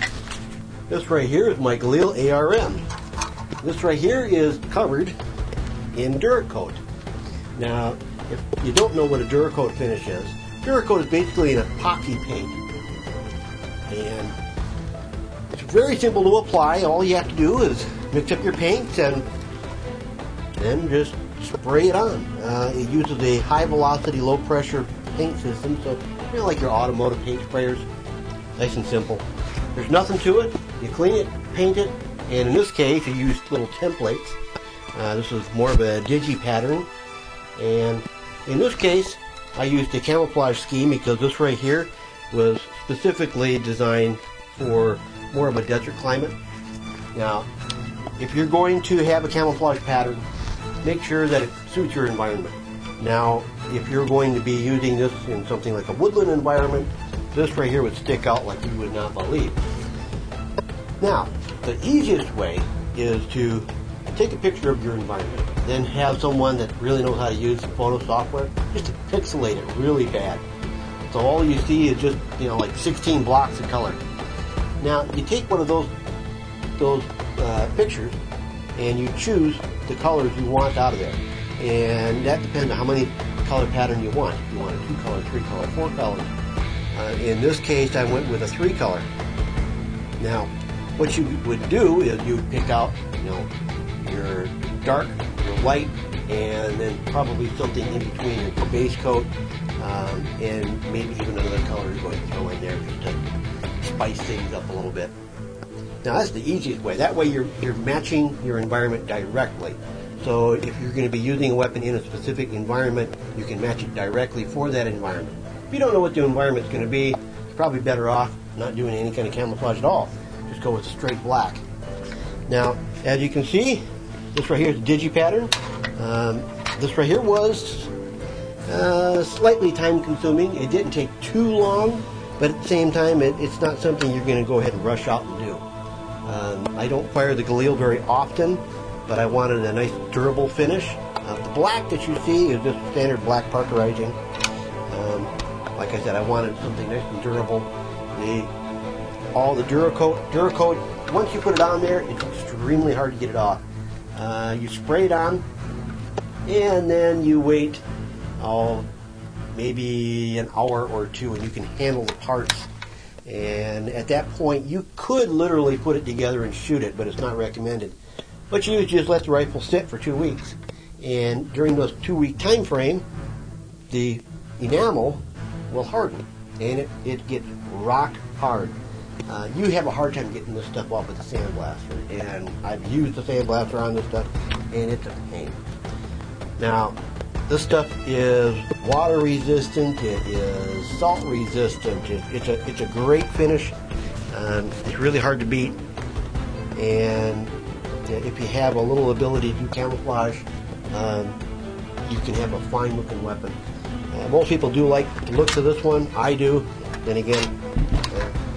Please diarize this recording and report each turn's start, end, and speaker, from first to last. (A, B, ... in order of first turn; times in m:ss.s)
0:00.9-0:02.8 A
0:03.6-0:05.2 A
0:05.9-0:06.8 A
0:07.6-0:12.6 A
0:13.9-0:14.4 A
0:15.5-0:19.2 A
0:20.5-0:27.8 A
0:28.6-0:34.4 A
0:34.9-0:36.9 A
0:37.6-0:46.4 A
0:47.1-0:47.5 A
0:48.2-0:50.2 A
0:50.8-0:59.6 A
1:01.0-1:10.4 A
1:11.1-1:14.0 A
1:14.8-1:15.9 A
1:16.8-1:18.2 A
1:18.8-1:26.3 A
1:26.9-1:29.1 A
1:30.2-1:33.5 A
1:34.0-1:43.2 A
1:43.8-1:45.1 A
1:46.0-2:01.6 A
2:02.5-2:03.8 A
2:04.3-2:07.9 A
2:08.6-2:15.6 A
2:16.2-2:24.2 A
2:24.9-2:28.5 A
2:29.3-2:33.6 A
2:34.1-2:35.4 A
2:36.4-2:37.8 A
2:38.4-2:38.9 A
2:39.5-2:42.7 A
2:43.2-2:48.0 A
2:48.5-2:53.0 A
2:53.9-3:05.6 A
3:06.6-3:07.0 A
3:07.5-3:13.8 A
3:14.3-3:15.8 A
3:16.8-3:21.4 A
3:22.0-3:23.6 A
3:24.1-3:27.5 A
3:28.1-3:28.4 A